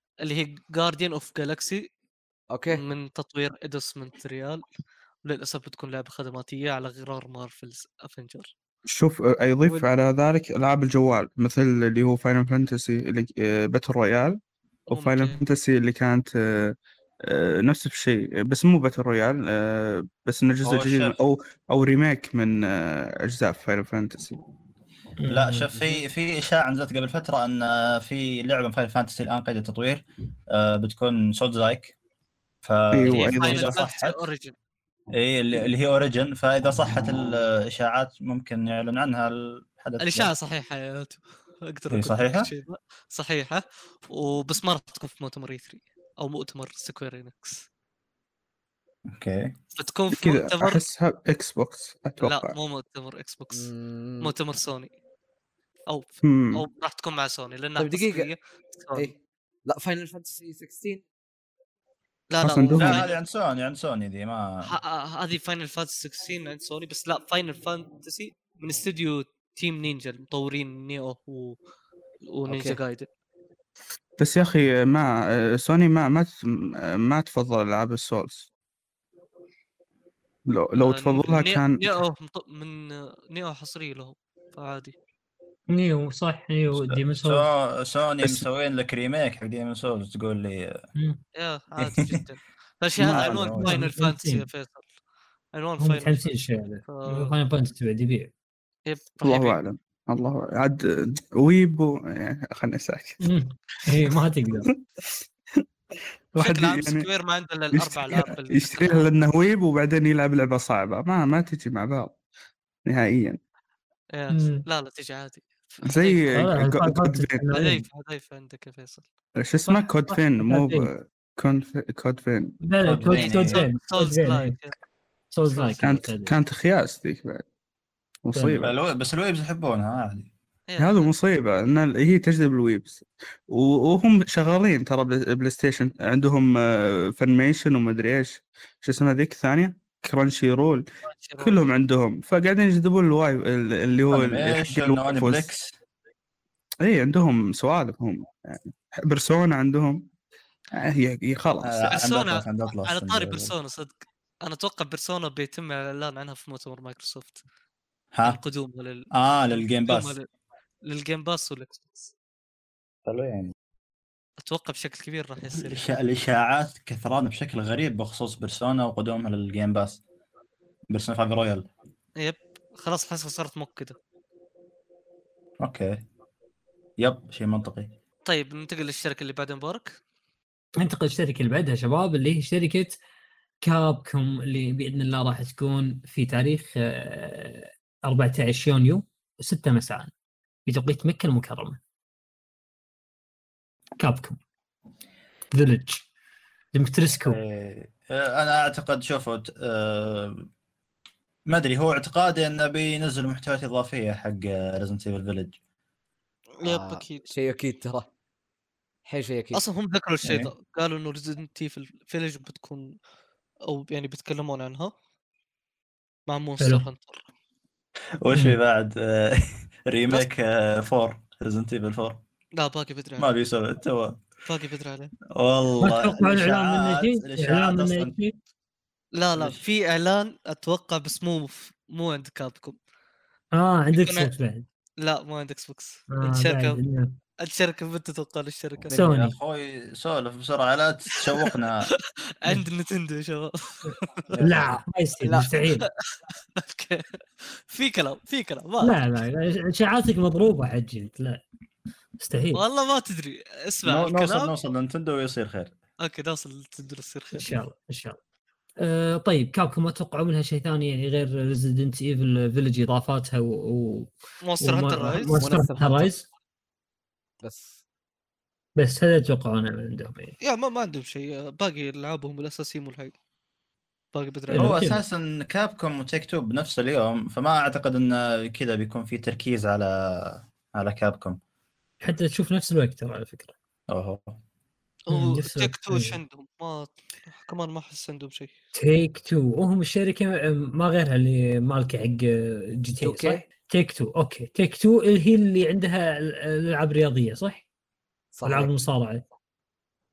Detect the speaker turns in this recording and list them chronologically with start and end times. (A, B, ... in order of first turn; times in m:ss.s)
0:00.2-0:01.9 A
0:02.5-0:02.8 B
0:02.7-0:04.6 A
0:05.2-0:08.5 A
0:08.9-0:24.4 C
0:14.9-0:15.4 A
0:20.6-0:21.2 D
0:25.2-0:25.7 E
0:25.3-0:31.9 D
0:32.6-0:34.2 D
0:32.9-0:33.7 C
0:33.1-0:34.6 A
0:35.1-0:40.3 D
0:40.0-0:47.7 A
0:41.9-0:42.5 D
0:49.1-0:49.6 D
0:49.8-0:50.8 A
0:50.1-0:52.6 C
0:52.2-0:53.7 A
0:53.5-0:54.3 B
0:54.2-0:54.9 A
0:55.9-0:59.1 A
0:56.2-0:56.6 C
0:57.8-0:58.3 B
0:59.7-1:01.0 B
1:02.3-1:03.2 A
1:02.4-1:03.0 C
1:02.8-1:04.7 D
1:04.6-1:11.6 A
1:12.3-1:13.1 A
1:12.5-1:12.8 B
1:14.2-1:18.5 C
1:20.5-1:22.0 C
1:20.8-1:25.0 A
1:25.7-1:27.5 E
1:26.8-1:30.8 D
1:28.2-1:28.5 C
1:31.4-1:34.9 A
1:31.8-1:32.2 D
1:33.0-1:33.4 C
1:33.0-1:33.8 D
1:33.6-1:34.4 E
1:35.5-1:36.3 A
1:35.8-1:38.3 E
1:36.9-1:37.3 A
1:38.9-1:39.6 A
1:39.2-1:43.2 C
1:43.2-1:44.7 E
1:46.3-1:47.1 C
1:46.4-1:49.1 A
1:47.7-1:52.2 C
1:52.8-1:53.4 C
1:54.1-1:56.4 A
1:54.3-1:54.6 E
1:55.8-1:57.5 C
1:56.3-1:57.8 E
1:57.5-1:59.0 A
1:59.4-2:02.6 C
2:00.1-2:00.9 E
2:02.6-2:04.6 E
2:02.8-2:03.7 D
2:03.2-2:04.7 A
2:05.3-2:06.4 E
2:05.5-2:05.8 A
2:05.8-2:07.4 C
2:08.2-2:08.8 C
2:08.3-2:08.6 E
2:08.5-2:10.3 D
2:10.7-2:11.1 A
2:10.8-2:20.8 C
2:21.1-2:21.6 A
2:21.4-2:25.5 C
2:24.1-2:25.7 D
2:26.8-2:30.1 C
2:30.7-2:31.9 C
2:31.6-2:33.5 D
2:31.9-2:37.4 A
2:38.1-2:38.4 D
2:38.2-2:40.3 A
2:39.1-2:40.2 D
2:40.9-2:42.1 A
2:43.1-2:43.5 D
2:44.4-2:45.9 A
2:45.5-2:50.0 D
2:50.9-2:51.7 D
2:52.2-2:54.0 A
2:55.6-2:56.0 D
2:57.0-2:57.9 D
2:58.3-3:00.0 A
3:00.8-3:03.0 E
3:03.6-3:10.1 E
3:10.7-3:11.8 E
3:14.0-3:14.4 E
3:15.5-3:16.0 E
3:16.7-3:17.4 E
3:17.3-3:20.4 D
3:21.5-3:25.6 D
3:26.6-3:27.3 A
3:26.6-3:28.1 B
3:29.1-3:29.6 B
3:29.5-3:33.0 A
3:30.2-3:30.5 D
3:33.7-3:34.9 A
3:36.3-3:37.2 A
3:36.6-3:36.8 E
3:38.2-3:42.2 D
3:38.3-3:38.6 E
3:42.6-3:43.3 A
3:43.2-3:44.2 D
3:44.5-3:45.1 A
3:45.3-3:48.1 D
3:45.8-3:48.4 E
3:49.2-3:52.8 A
3:53.5-3:54.7 E
3:53.9-3:54.3 A
3:55.0-3:56.8 A
3:56.1-3:57.1 E
3:57.4-3:59.0 A
3:58.9-3:59.4 E
3:59.0-4:01.9 D
4:01.2-4:04.4 A
4:04.3-4:05.5 B
4:04.4-4:05.9 E
4:05.6-4:09.0 A
4:08.8-4:11.4 E
4:12.2-4:12.6 E
4:12.5-4:14.6 A
4:13.9-4:15.7 D
4:16.0-4:17.5 A
4:17.4-4:18.2 E
4:18.8-4:26.2 E
4:24.4-4:25.4 A
4:25.4-4:26.1 B
4:27.4-4:27.8 B
4:28.8-4:30.4 E
4:30.4-4:33.1 A
4:34.1-4:34.8 A
4:34.5-4:35.0 E
4:34.6-4:41.4 D
4:42.0-4:43.5 E
4:43.9-4:44.4 D
4:45.1-4:48.5 A
4:45.1-4:46.2 E
4:48.8-4:57.6 E
4:53.0-4:53.4 B
4:58.3-4:58.7 B
4:58.4-4:59.2 E